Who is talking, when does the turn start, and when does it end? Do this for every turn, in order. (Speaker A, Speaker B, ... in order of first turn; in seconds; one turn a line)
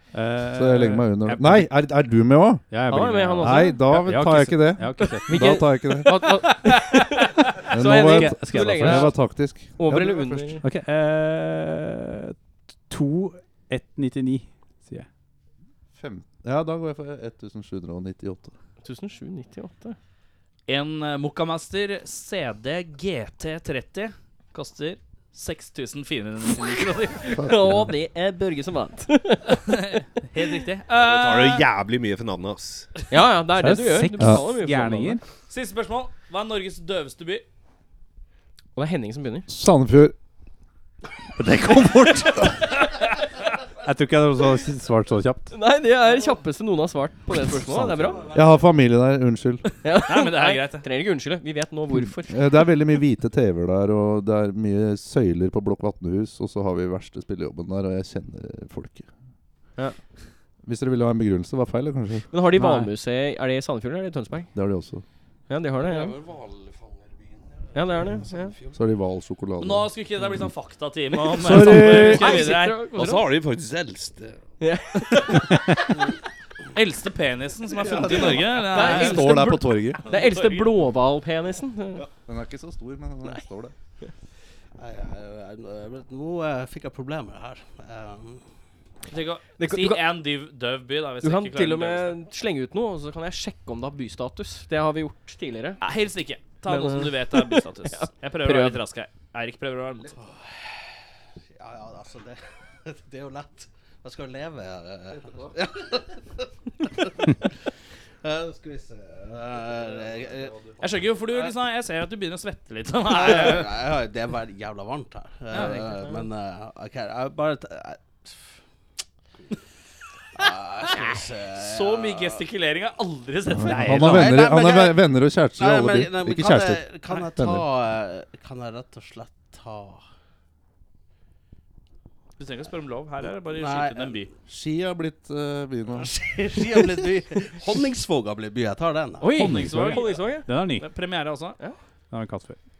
Speaker A: 0.1-1.7
Speaker B: 0.5-2.6
Speaker A: 2.7-5.6
Speaker C: 2.9-3.9
Speaker B: 3.4-6.4
Speaker C: 5.0-9.2
Speaker D: 6.5-7.0
Speaker B: 7.7-10.6
Speaker A: 7.8-9.2
Speaker C: 9.8-10.6
Speaker A: 10.6-12.3
Speaker A: 12.9-15.1
Speaker B: 15.9-18.5
Speaker C: 18.8-20.0
Speaker D: 20.7-27.4
Speaker C: 27.2-29.7
Speaker B: 27.3-27.9
Speaker D: 29.5-31.6
Speaker E: 30.9-32.9
Speaker C: 33.1-35.2
Speaker A: 33.5-35.2
Speaker B: 34.2-34.4
Speaker D: 35.5-37.4
Speaker C: 38.7-39.5
Speaker B: 39.5-40.1
Speaker A: 41.4-42.4
Speaker A: 43.8-45.5
Speaker C: 45.5-48.3
Speaker B: 48.0-49.8
Speaker C: 49.8-52.6
Speaker D: 50.0-50.8
Speaker B: 52.2-59.1
Speaker B: 60.6-62.3
Speaker C: 62.3-64.5
Speaker A: 62.5-62.9
Speaker B: 64.5-65.0
Speaker C: 65.5-66.2
Speaker E: 65.8-68.8
Speaker C: 67.7-68.5
Speaker B: 68.7-69.9
Speaker D: 69.6-73.2
Speaker B: 71.3-72.4
Speaker C: 71.4-73.2
Speaker E: 72.9-74.4
Speaker C: 74.6-75.6
Speaker D: 76.7-80.7
Speaker B: 78.0-80.0
Speaker C: 78.1-82.0
Speaker B: 82.2-83.7
Speaker F: 84.8-88.4
Speaker D: 89.1-92.2
Speaker C: 89.6-90.1
Speaker C: 91.2-95.8
Speaker D: 95.8-100.1
Speaker C: 96.7-98.8
Speaker F: 100.1-100.8
Speaker F: 101.5-107.5
Speaker F: 108.2-110.6
Speaker E: 110.0-110.8
Speaker D: 110.8-113.8
Speaker F: 113.0-118.5
Speaker D: 115.5-115.9
Speaker F: 120.3-122.4
Speaker D: 120.9-124.4
Speaker B: 123.5-127.7
Speaker F: 123.7-125.0
Speaker F: 125.5-130.0
Speaker D: 132.4-134.3
Speaker F: 133.5-134.3
Speaker B: 134.5-136.1
Speaker F: 135.9-139.5
Speaker C: 139.2-140.5
Speaker D: 139.3-141.6
Speaker A: 139.4-140.8
Speaker A: 142.1-142.6